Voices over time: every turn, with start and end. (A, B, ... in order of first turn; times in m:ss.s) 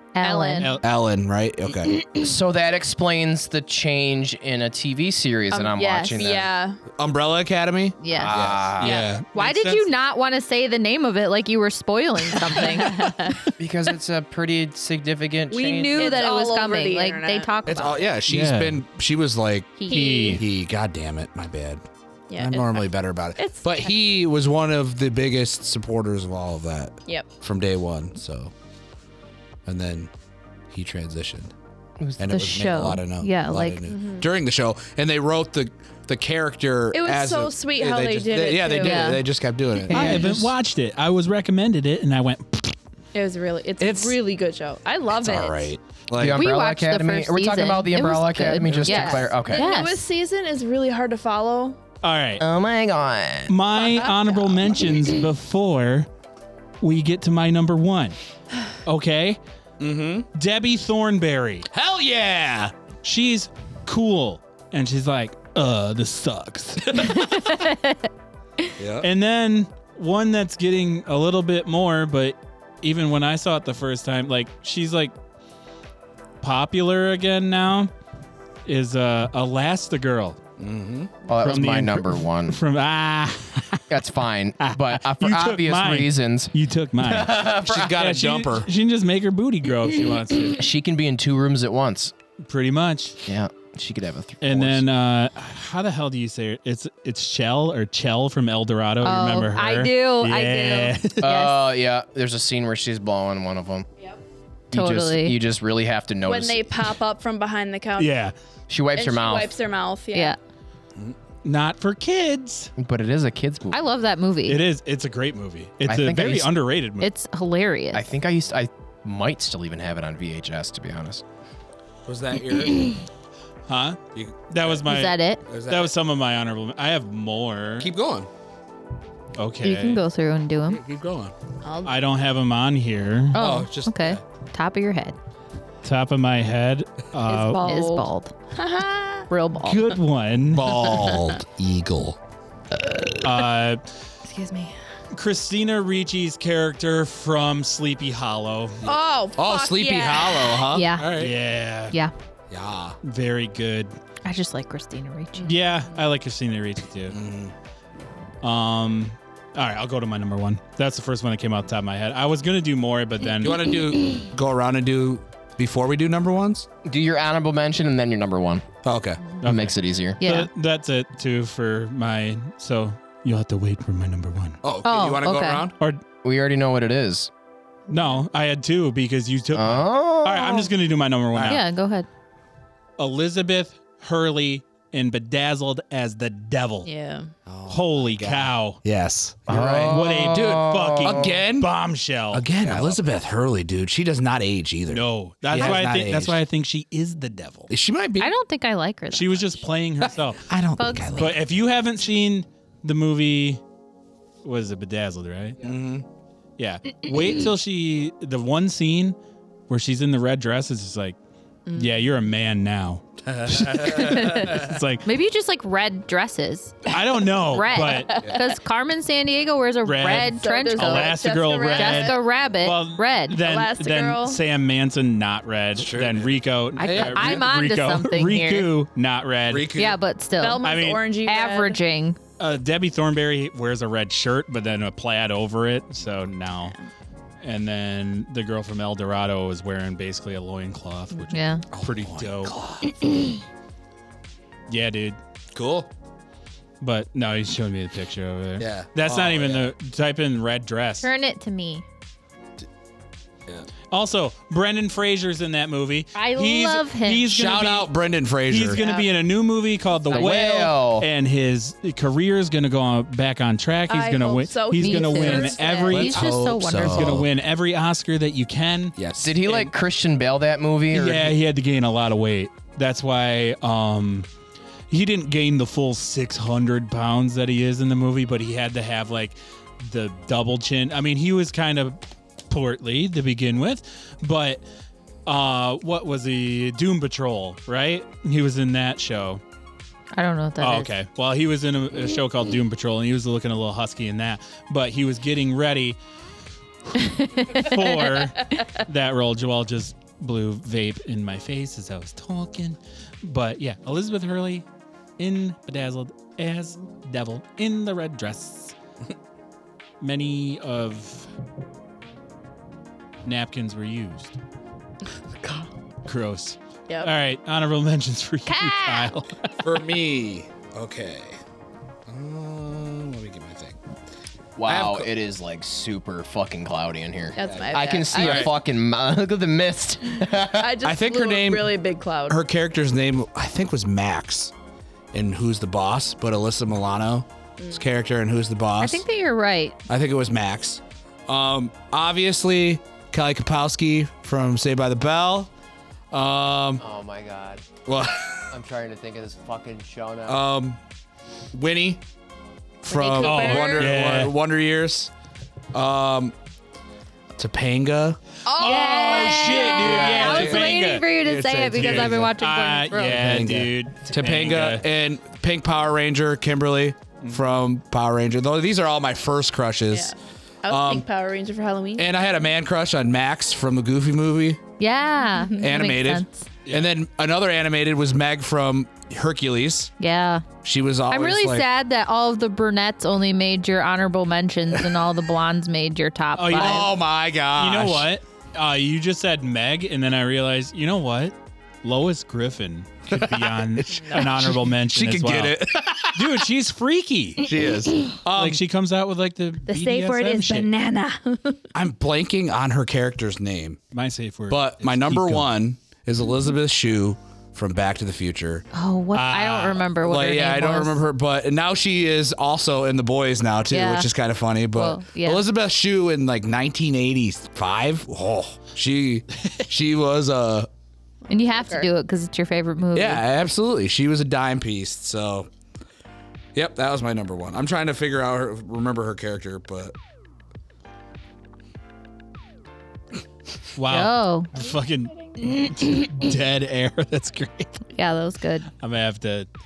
0:00.1-0:00.8 A
0:00.2-0:00.8 B
0:00.6-0:00.8 C
0:00.8-0:02.0 D
0:02.1-0:06.5 E
0:05.5-0:06.8 B
0:07.0-0:09.2 D
0:08.0-0:13.4 A
0:08.1-0:09.0 E
0:08.8-0:09.9 C
0:12.4-0:13.5 B
0:13.6-0:16.0 E
0:15.5-0:18.0 A
0:16.0-0:18.0 B
0:17.7-0:21.8 D
0:18.3-0:18.8 C
0:19.8-0:20.2 A
0:19.9-0:20.4 C
0:19.9-0:20.4 B
0:22.3-0:23.9 B
0:22.4-0:28.5 D
0:29.7-0:30.1 D
0:30.7-0:31.5 D
0:32.2-0:40.3 D
0:32.3-0:33.8 A
0:33.9-0:34.3 B
0:36.9-0:39.2 B
0:38.8-0:39.2 A
0:39.9-0:40.5 E
0:39.9-0:42.8 C
0:43.1-0:45.7 B
0:43.8-0:44.2 D
0:45.1-0:46.4 D
0:46.2-0:49.7 E
0:46.4-0:50.0 A
0:48.8-0:51.8 B
0:52.0-0:52.4 C
0:52.4-0:53.6 E
0:53.5-0:56.1 C
0:53.8-0:54.8 B
0:56.8-0:58.2 C
0:58.8-0:59.4 C
0:59.8-1:00.3 D
1:00.3-1:01.7 C
1:01.7-1:02.7 D
1:03.0-1:07.5 C
1:06.9-1:08.1 A
1:08.8-1:09.1 D
1:09.0-1:15.1 C
1:16.4-1:17.9 C
1:18.7-1:20.4 C
1:20.6-1:21.1 D
1:21.3-1:22.6 E
1:21.4-1:23.9 C
1:23.9-1:28.0 E
1:24.6-1:30.6 C
1:27.3-1:28.7 D
1:30.5-1:32.1 E
1:32.4-1:33.2 C
1:33.3-1:34.8 E
1:34.4-1:41.3 C
1:39.0-1:41.7 A
1:41.2-1:43.9 E
1:44.7-1:46.9 E
1:44.7-1:45.4 A
1:46.3-1:48.1 B
1:48.0-1:48.4 C
1:48.7-1:49.6 E
1:48.9-1:50.4 B
1:51.4-1:52.7 C
1:52.8-1:53.8 E
1:53.7-1:54.6 A
1:54.4-1:57.1 C
1:55.8-1:56.5 E
1:57.0-1:58.0 A
1:57.9-2:01.2 E
2:02.1-2:03.0 D
2:03.7-2:04.0 C
2:04.1-2:04.8 D
2:04.5-2:07.9 C
2:04.9-2:05.4 A
2:05.5-2:05.9 D
2:07.8-2:08.3 D
2:09.4-2:10.0 C
2:09.6-2:10.8 A
2:10.7-2:11.3 D
2:11.6-2:12.0 B
2:11.8-2:13.4 C
2:13.3-2:15.2 A
2:13.4-2:14.2 D
2:15.8-2:17.7 C
2:17.3-2:19.3 B
2:17.6-2:18.3 A
2:19.3-2:20.0 A
2:19.6-2:20.8 C
2:20.5-2:22.2 D
2:22.8-2:23.1 D
2:23.2-2:23.9 C
2:24.3-2:24.7 A
2:24.4-2:24.7 B
2:25.1-2:28.8 C
2:28.8-2:30.7 B
2:28.8-2:30.9 D
2:30.7-2:31.3 A
2:31.0-2:32.0 C
2:32.5-2:33.0 D
2:33.0-2:34.0 C
2:34.2-2:35.6 A
2:35.4-2:37.2 C
2:37.1-2:37.6 D
2:38.4-2:43.7 C
2:43.4-2:46.7 D
2:46.8-2:48.6 E
2:48.8-2:49.2 D
2:49.4-2:54.6 C
2:49.4-2:50.2 E
2:50.2-2:50.5 A
2:54.6-2:55.7 D
2:54.8-2:55.7 A
2:56.2-2:57.3 E
2:57.9-3:01.6 C
2:59.5-3:00.7 E
3:01.3-3:01.6 D
3:01.4-3:02.1 A
3:03.0-3:06.9 C
3:06.8-3:07.3 B
3:07.5-3:11.7 D
3:07.7-3:08.8 C
3:09.5-3:11.4 E
3:09.7-3:13.0 C
3:12.3-3:16.4 D
3:14.9-3:17.7 C
3:17.7-3:18.3 D
3:18.2-3:19.7 A
3:19.1-3:20.5 C
3:20.0-3:21.5 D
3:20.8-3:21.4 A
3:21.2-3:23.6 C
3:24.4-3:25.7 C
3:25.6-3:26.0 D
3:26.6-3:29.2 C
3:29.7-3:31.2 C
3:31.7-3:32.0 B
3:31.7-3:35.1 C
3:33.3-3:34.7 D
3:34.0-3:41.2 A
3:36.9-3:38.2 C
3:37.8-3:38.5 B
3:39.8-3:49.8 C
3:40.2-3:42.2 B
3:41.7-3:43.4 A
3:43.4-3:44.4 B
3:45.8-3:47.4 D
3:46.8-3:48.7 A
3:49.5-3:50.0 D
3:49.7-3:52.2 A
3:50.4-3:51.8 B
3:50.6-3:51.0 C
3:52.4-3:56.8 C
3:57.4-4:02.6 C
4:01.3-4:01.6 A
4:01.7-4:03.0 D
4:04.7-4:05.2 C
4:05.5-4:05.9 D
4:06.8-4:11.1 C
4:08.6-4:09.7 D
4:11.0-4:11.8 A
4:13.9-4:17.9 C
4:16.1-4:17.3 A
4:17.3-4:18.8 D
4:18.4-4:29.7 C
4:18.7-4:19.2 B
4:20.1-4:21.1 E
4:23.9-4:26.1 B
4:24.8-4:27.2 A
4:25.9-4:27.3 D
4:29.0-4:29.4 D
4:29.2-4:31.4 E
4:30.9-4:34.3 C
4:34.9-4:44.6 C
4:45.3-4:49.4 C
4:50.1-4:50.9 A
4:50.6-4:56.0 C
4:56.9-5:04.7 C
4:57.0-4:58.1 A
5:05.2-5:08.8 C
5:10.0-5:11.3 C
5:13.2-5:14.4 C
5:15.4-5:15.7 B
5:16.0-5:19.6 C
5:18.5-5:19.1 A
5:19.6-5:21.4 D
5:22.1-5:23.8 D
5:24.6-5:30.8 E
5:24.6-5:25.1 D
5:27.4-5:28.5 B
5:27.4-5:28.0 D
5:28.2-5:28.5 C
5:30.5-5:32.4 B
5:30.8-5:31.7 D
5:32.3-5:34.5 D
5:35.1-5:39.0 D
5:37.6-5:37.8 B
5:38.8-5:39.8 A
5:39.9-5:45.5 D
5:46.1-5:46.8 D
5:46.8-5:47.7 E
5:47.9-5:48.6 D
5:48.5-5:50.4 E
5:50.2-5:50.8 D
5:51.5-5:52.0 D
5:52.8-5:55.1 D
5:52.9-5:53.9 B
5:53.2-5:54.3 C
5:55.7-5:56.4 D
5:57.4-5:58.2 D
5:58.4-5:59.7 B
5:58.5-6:01.2 C
5:58.6-6:03.3 A
5:59.6-6:02.3 D
6:01.7-6:04.9 C
6:03.0-6:10.1 D
6:07.2-6:07.6 C
6:09.9-6:12.1 B
6:10.7-6:11.1 D
6:12.0-6:14.6 D
6:14.8-6:16.5 A
6:15.3-6:15.6 B
6:15.6-6:19.9 D
6:16.7-6:16.9 C
6:20.0-6:20.4 A
6:20.6-6:21.6 D
6:21.1-6:26.9 A
6:26.4-6:26.9 C
6:26.5-6:28.1 D
6:27.5-6:37.5 C
6:33.1-6:36.5 D
6:37.4-6:38.6 D
6:38.3-6:40.7 C
6:39.7-6:41.6 B
6:41.7-6:43.8 D
6:43.9-6:45.5 C
6:44.5-6:48.6 D
6:48.7-6:51.0 A
6:49.1-6:49.9 C
6:50.0-7:00.7 D
6:53.7-6:54.1 A
6:54.7-6:55.4 A
7:01.3-7:01.9 B
7:01.3-7:03.2 A
7:03.0-7:05.5 D
7:06.5-7:10.0 D
7:13.8-7:17.8 C
7:13.9-7:14.5 A
7:18.0-7:18.7 A
7:18.8-7:19.5 C